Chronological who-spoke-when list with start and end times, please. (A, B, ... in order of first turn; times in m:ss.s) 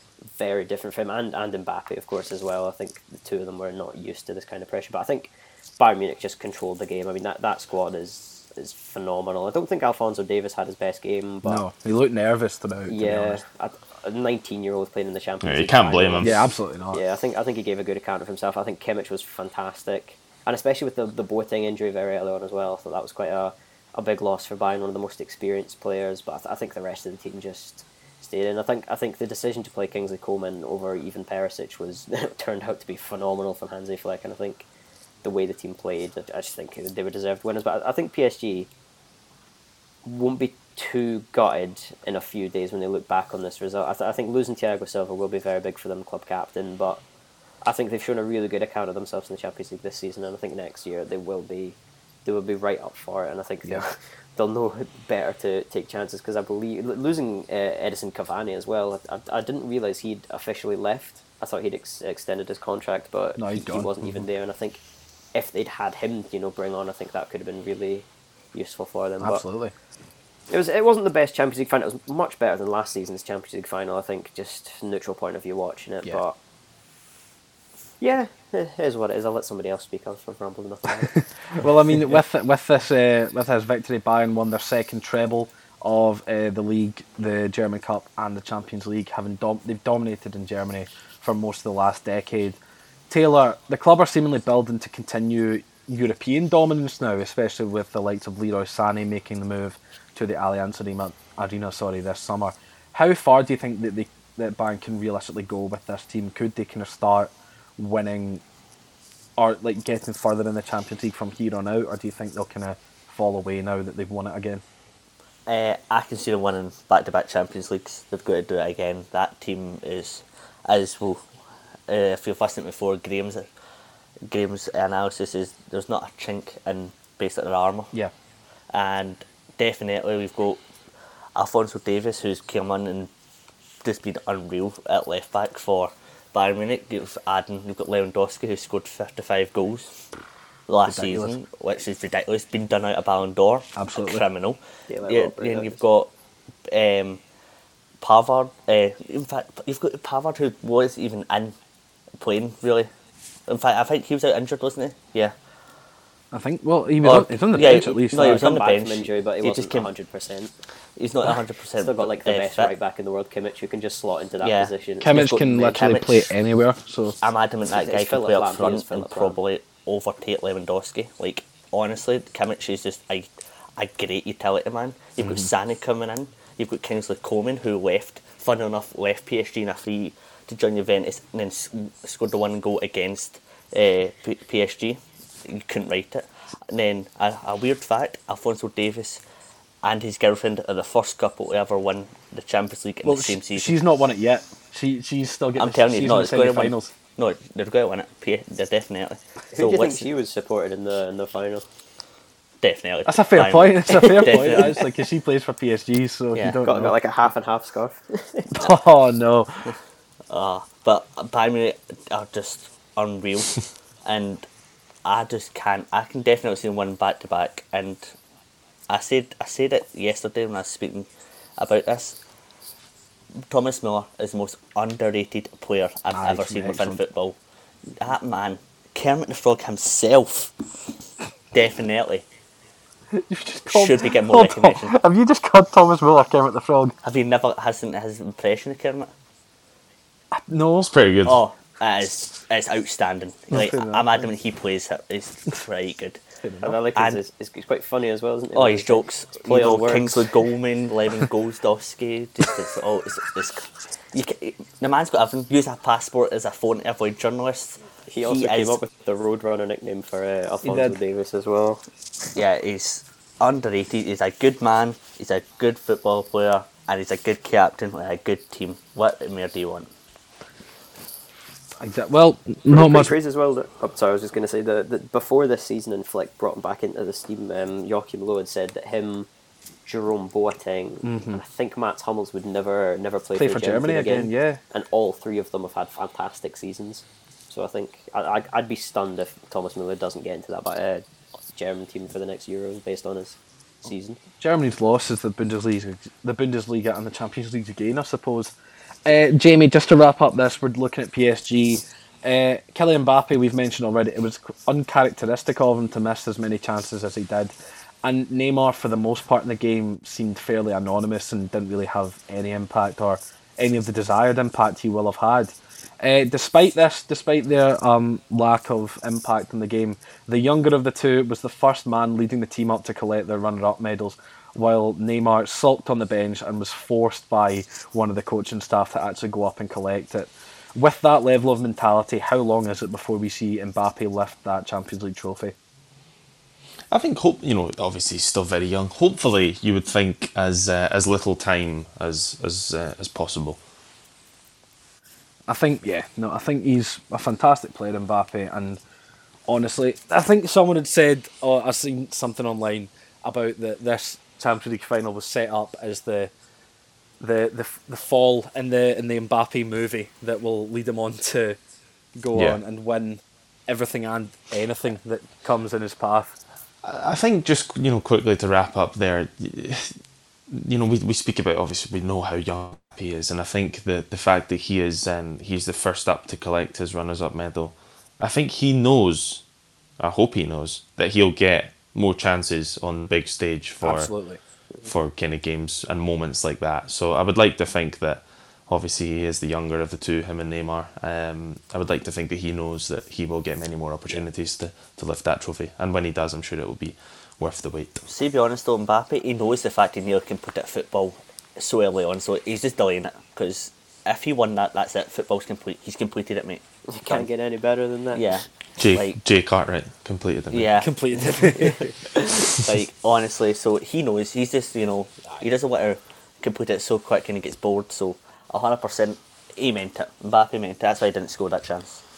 0:00.4-0:11.6 A
0:11.4-0:13.4 B
0:12.9-0:34.7 A
0:15.4-0:16.3 C
0:16.2-0:17.0 B
0:35.2-0:38.7 A
0:40.0-0:47.0 A
0:47.6-1:04.8 A
1:03.4-1:04.2 B
1:05.3-1:09.4 A
1:09.2-1:09.7 B
1:10.5-1:16.4 A
1:18.0-1:21.6 A
1:21.0-1:32.6 B
1:33.1-1:48.4 B
1:49.4-1:54.6 B
1:55.5-2:01.3 D
2:01.9-2:03.5 D
2:04.3-2:07.9 D
2:08.7-2:10.6 D
2:11.4-2:13.1 D
2:13.8-2:20.0 D
2:20.7-2:26.1 D
2:20.8-2:21.4 B
2:23.8-2:24.2 B
2:24.9-2:25.8 A
2:26.7-2:27.2 D
2:28.0-2:31.5 D
2:32.2-2:32.9 D
2:33.5-2:35.3 D
2:36.3-2:38.4 B
2:37.0-2:39.9 D
2:37.7-2:40.5 A
2:41.0-2:42.7 D
2:41.8-2:45.2 A
2:44.4-2:46.3 D
2:45.0-2:47.2 B
2:47.2-3:09.2 D
2:47.7-2:49.4 A
2:55.2-2:55.5 B
3:09.8-3:13.8 D
3:13.0-3:16.9 B
3:15.6-3:20.1 D
3:19.5-3:21.6 A
3:22.6-3:24.7 D
3:23.0-3:26.9 B
3:23.9-3:24.8 A
3:26.6-3:28.5 A
3:28.5-3:29.7 B
3:30.3-3:34.5 D
3:35.0-3:38.1 D
3:38.9-3:42.2 D
3:43.5-3:47.4 D
3:46.1-3:47.0 B
3:48.0-3:50.5 D
3:51.5-3:52.2 D
3:53.1-3:56.9 B
3:53.7-3:55.0 D
3:57.0-3:59.1 D
4:00.3-4:00.9 B
4:00.9-4:01.4 C
4:01.2-4:06.2 D
4:03.5-4:04.3 B
4:06.4-4:06.8 B
4:06.6-4:10.3 A
4:06.7-4:07.2 D
4:08.5-4:18.8 D
4:18.1-4:21.8 A
4:20.6-4:21.0 B
4:22.3-4:29.9 D
4:31.8-4:33.1 B
4:32.7-4:39.3 A
4:39.8-4:54.2 A
4:41.0-4:41.4 B
4:43.3-4:44.6 B
4:54.4-4:58.5 B
4:59.0-5:35.5 B
5:36.9-5:43.6 C
5:45.5-5:48.8 B
5:49.5-5:56.3 B
5:57.2-6:01.6 B
6:02.2-6:06.4 B
6:06.8-6:10.0 C
6:10.5-6:19.4 C
6:20.0-6:24.1 C
6:23.8-6:24.4 B
6:24.8-6:38.0 C
6:38.1-6:47.3 D
6:46.9-6:48.3 A
6:48.1-6:49.2 D
6:48.8-6:50.7 C
6:50.5-6:50.9 D
6:50.8-6:51.9 B
6:51.5-7:02.0 D